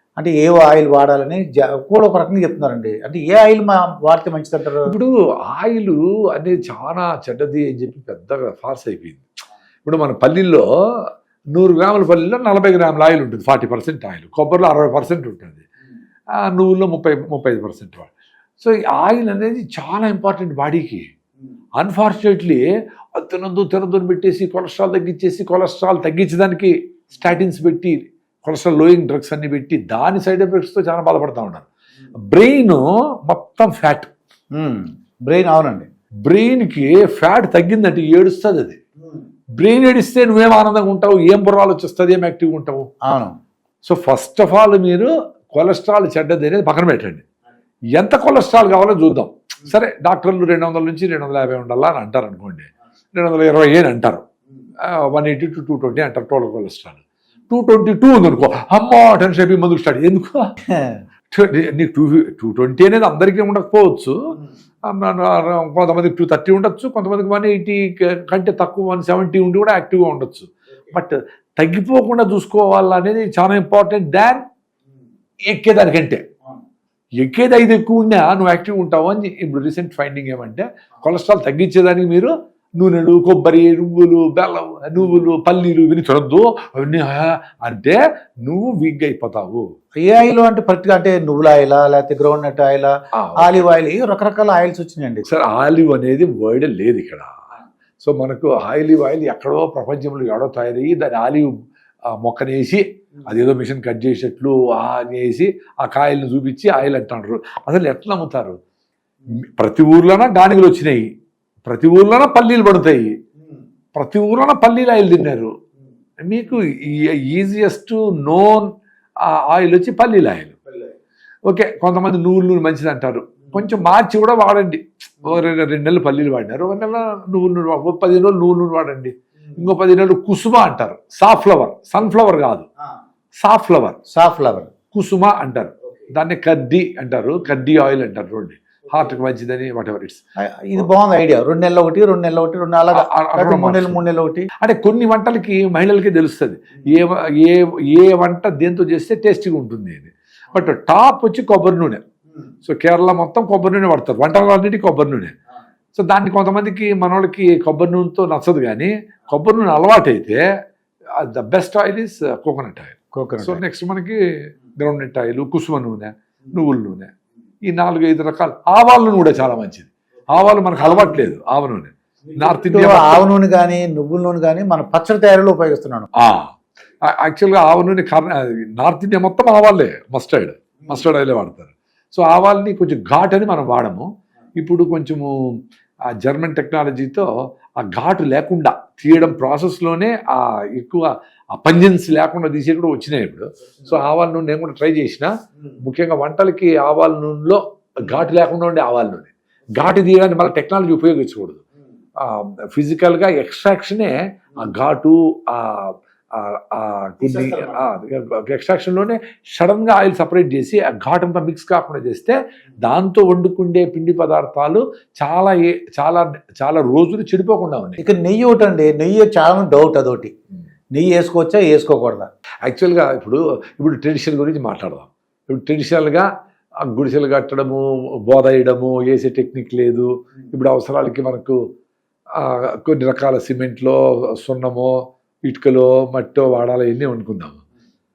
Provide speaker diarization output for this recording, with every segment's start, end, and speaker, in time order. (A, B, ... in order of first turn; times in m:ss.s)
0:00.2-0:04.9 A
0:04.9-0:09.2 B
0:09.8-0:10.6 B
0:11.5-0:15.6 B
0:16.4-0:21.1 B
0:21.8-0:22.6 B
0:23.2-0:31.7 B
0:32.3-0:34.1 B
0:34.6-0:35.9 A
0:36.3-0:38.8 B
0:39.6-0:42.8 B
0:43.1-0:43.4 A
0:43.8-0:47.2 B
0:48.0-0:54.2 B
0:54.9-1:00.5 B
1:00.7-1:01.0 A
1:01.3-1:04.2 B
1:04.9-1:14.4 B
1:15.5-1:16.2 B
1:17.2-1:29.6 B
1:30.0-1:35.3 A
1:33.1-1:33.6 B
1:35.3-1:37.3 B
1:38.0-1:41.5 B
1:42.2-1:48.6 B
1:49.3-1:51.1 B
1:51.7-1:53.2 B
1:54.0-1:55.5 B
1:56.2-1:58.7 B
1:59.2-2:00.6 B
2:01.5-2:12.7 B
2:13.4-2:14.0 B
2:14.1-2:14.7 A
2:14.9-2:20.2 B
2:20.5-2:24.5 A
2:22.9-2:24.0 B
2:24.6-2:32.0 B
2:32.7-2:35.4 B
2:36.0-2:40.4 B
2:41.2-2:44.2 B
2:43.2-2:43.6 A
2:44.8-2:47.1 B
2:47.7-2:53.3 B
2:52.7-2:56.1 A
2:56.2-2:56.5 B
2:57.1-3:04.1 B
3:04.6-3:05.3 B
3:06.2-3:07.3 B
3:07.8-3:15.3 B
3:15.8-3:21.6 B
3:22.2-3:38.0 B
3:27.2-3:27.8 A
3:38.0-3:40.3 A
3:41.0-3:42.3 A
3:42.6-3:46.3 B
3:46.9-3:51.6 B
3:52.4-3:54.9 B
3:55.4-3:57.6 B